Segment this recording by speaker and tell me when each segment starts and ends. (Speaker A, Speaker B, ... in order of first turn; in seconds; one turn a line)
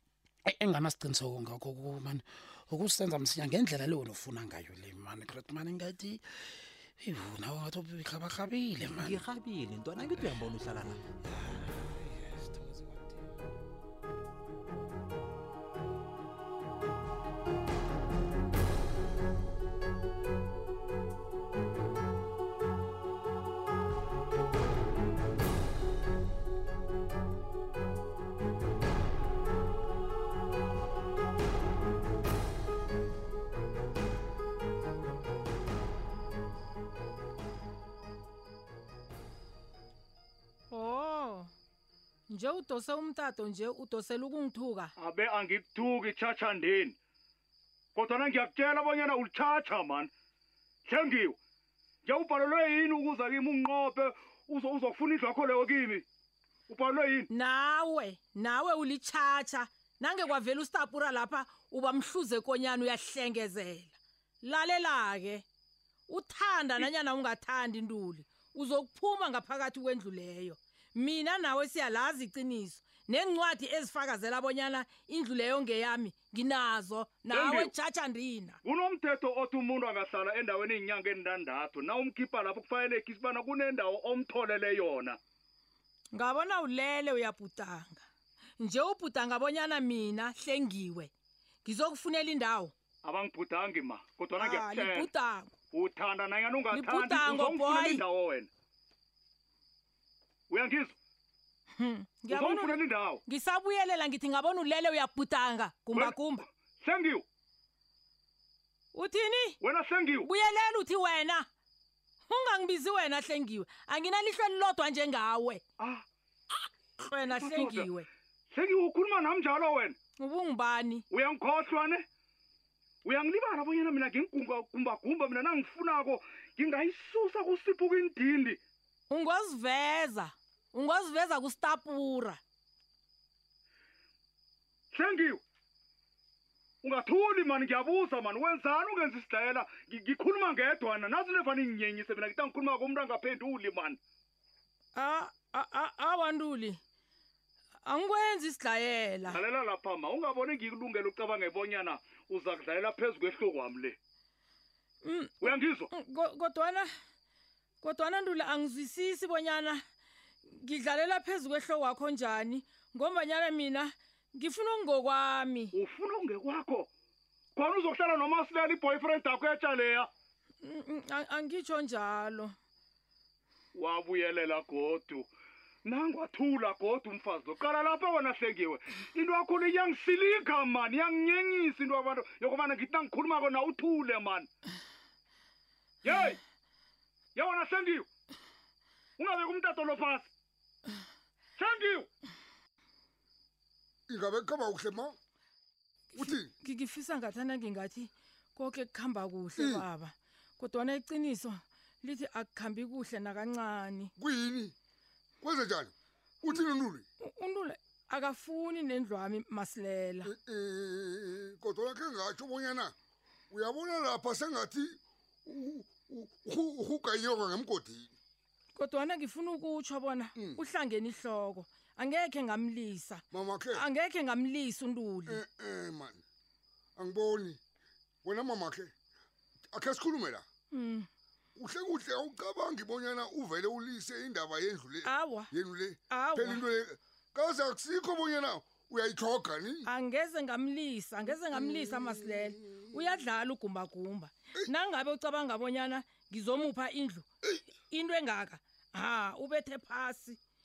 Speaker A: 0.4-9.2
Speaker B: 8.8-11.0
Speaker A: 11.2-13.2
Speaker C: 40.7-41.5
Speaker C: 42.3-44.9
Speaker D: 45.0-46.9
Speaker D: 47.9-50.1
Speaker D: 50.9-51.4
Speaker D: 52.0-56.0
Speaker D: 56.7-57.3
Speaker C: 57.3-65.4
Speaker C: 66.1-78.6
Speaker D: 77.3-77.7
Speaker D: 78.6-85.2
Speaker C: 86.1-88.0
Speaker C: 88.6-91.1
Speaker C: 91.6-92.7
Speaker D: 93.0-95.1
Speaker C: 94.4-95.5
Speaker D: 95.7-98.5
Speaker C: 96.7-98.0
Speaker D: 100.5-100.9
Speaker C: 101.8-106.4
Speaker D: 102.3-103.2
Speaker D: 105.9-107.2
Speaker C: 108.9-109.6
Speaker D: 109.6-110.3
Speaker C: 110.2-111.5
Speaker C: 112.3-115.6
Speaker D: 115.8-116.0
Speaker C: 117.0-118.1
Speaker D: 117.3-117.9
Speaker D: 118.5-120.0
Speaker C: 120.2-121.0
Speaker D: 121.1-122.0
Speaker D: 123.0-128.6
Speaker C: 129.1-132.4
Speaker D: 134.9-135.4
Speaker D: 136.8-144.0
Speaker C: 144.9-146.8
Speaker C: 147.8-149.4
Speaker D: 149.3-153.9
Speaker C: 155.0-156.9
Speaker D: 155.4-155.9
Speaker C: 157.8-159.8
Speaker C: 160.5-165.7
Speaker D: 165.7-166.9
Speaker D: 167.6-170.1
Speaker C: 170.6-172.5
Speaker D: 173.7-175.2
Speaker D: 175.8-184.5
Speaker D: 186.0-186.4
Speaker D: 187.3-188.1
Speaker D: 189.2-190.3
Speaker D: 191.6-192.1
Speaker E: 194.1-195.2
Speaker C: 196.1-204.1
Speaker E: 196.2-196.5
Speaker E: 199.6-199.8
Speaker E: 204.2-204.7
Speaker E: 205.4-207.1
Speaker C: 207.2-210.3
Speaker E: 210.2-212.9
Speaker E: 213.5-218.1
Speaker C: 218.7-225.4
Speaker E: 223.3-223.8
Speaker E: 225.3-226.2
Speaker E: 226.9-227.6
Speaker E: 228.2-228.9
Speaker E: 229.7-230.4
Speaker C: 230.7-231.1
Speaker E: 231.6-239.9
Speaker C: 235.0-235.5
Speaker C: 236.1-236.6
Speaker C: 239.8-250.4
Speaker E: 241.5-242.9